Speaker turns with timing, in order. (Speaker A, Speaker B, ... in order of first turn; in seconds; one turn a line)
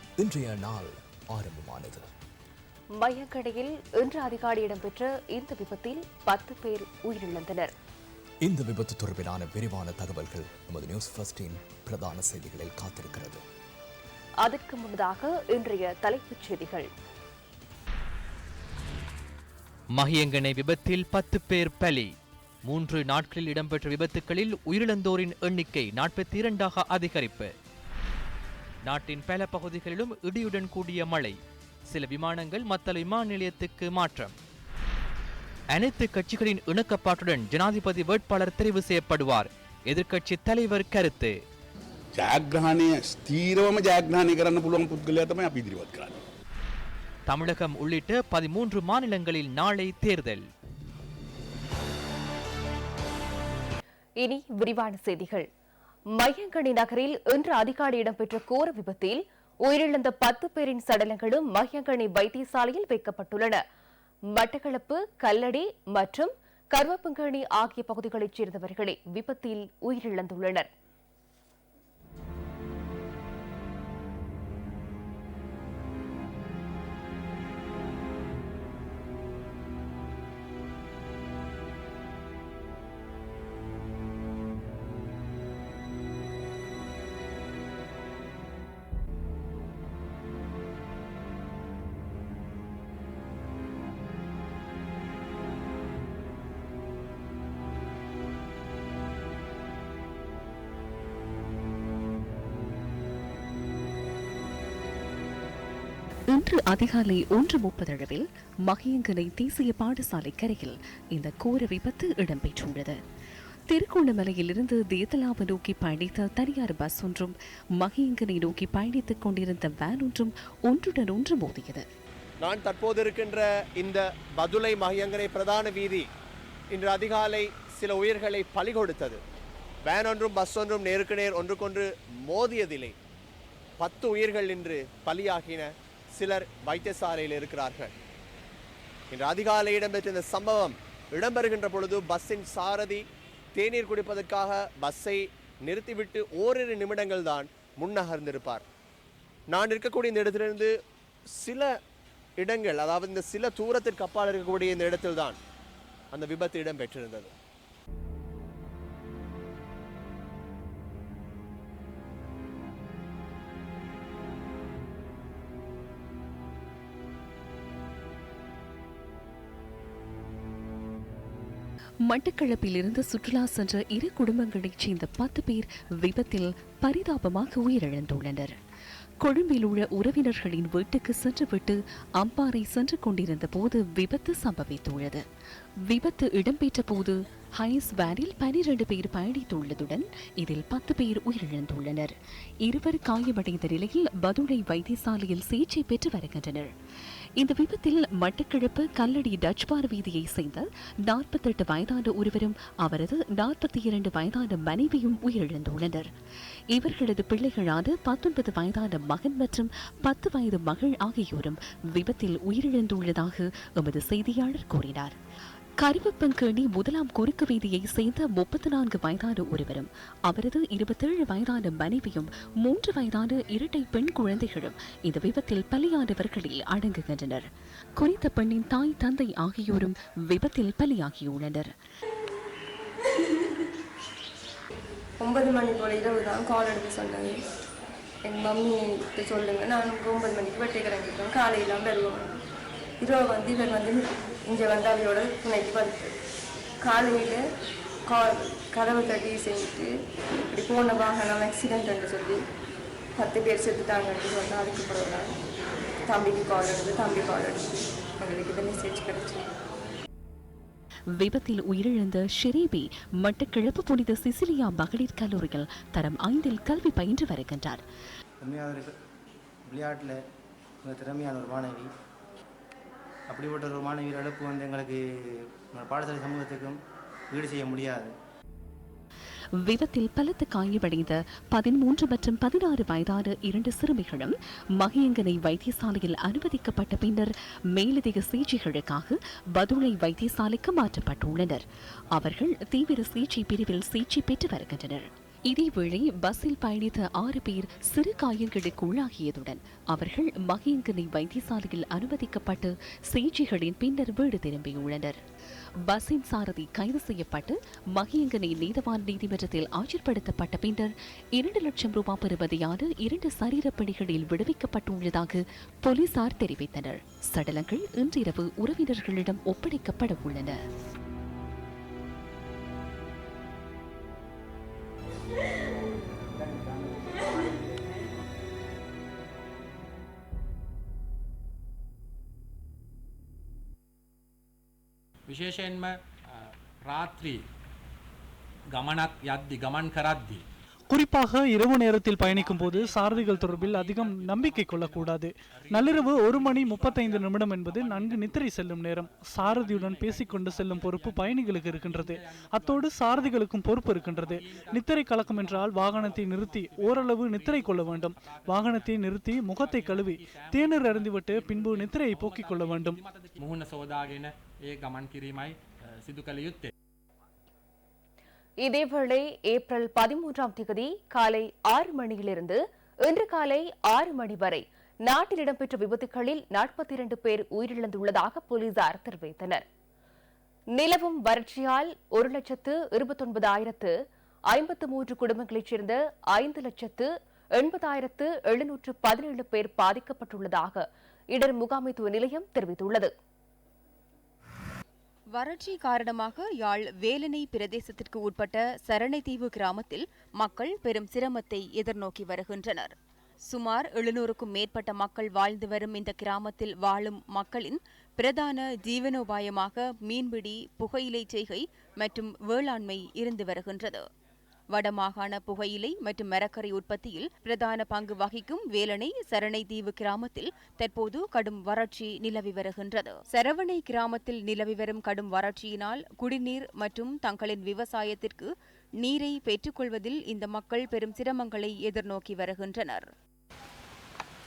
Speaker A: 0.2-2.1
Speaker B: 3.0-7.7
Speaker A: 8.4-13.4
Speaker B: 14.4-16.9
Speaker C: 19.9-22.1
Speaker C: 22.6-27.5
Speaker C: 28.9-31.4
Speaker C: 31.9-34.3
Speaker C: 35.7-41.3
Speaker D: 42.1-46.1
Speaker C: 47.3-50.4
Speaker B: 54.2-55.5
Speaker B: 56.1-63.6
Speaker B: 64.3-70.7
Speaker E: 106.3-113.0
Speaker E: 113.7-121.8
Speaker F: 122.4-126.0
Speaker F: 126.7-129.2
Speaker F: 129.9-132.9
Speaker F: 133.8-137.9
Speaker F: 139.1-143.0
Speaker F: 143.5-148.6
Speaker F: 149.5-150.7
Speaker F: 151.3-151.7
Speaker F: 152.4-155.4
Speaker F: 156.1-157.3
Speaker E: 172.1-178.6
Speaker E: 179.2-185.2
Speaker E: 185.8-196.7
Speaker E: 197.4-206.1
Speaker E: 206.7-215.1
Speaker E: 215.8-227.4
Speaker E: 227.9-231.7
Speaker G: 235.2-237.4
Speaker G: 238.2-242.4
Speaker G: 243.0-246.1
Speaker G: 246.8-247.4
Speaker G: 248.1-249.9
Speaker G: 250.5-252.4
Speaker G: 253.2-255.3
Speaker G: 256.1-259.5
Speaker E: 261.1-267.8
Speaker H: 268.4-268.9
Speaker H: 269.7-270.2
Speaker H: 270.8-271.9
Speaker H: 273.3-275.0
Speaker H: 275.8-276.8
Speaker H: 277.3-278.1
Speaker E: 279.6-305.2
Speaker E: 305.8-320.6
Speaker I: 335.3-335.9
Speaker I: 336.9-337.4
Speaker I: 338.7-340.4
Speaker J: 340.9-363.0
Speaker I: 342.2-348.5
Speaker I: 349.4-366.7
Speaker B: 368.6-379.6
Speaker B: 380.7-383.9
Speaker B: 384.5-393.1
Speaker K: 395.3-402.9
Speaker K: 403.4-414.1
Speaker K: 414.7-433.1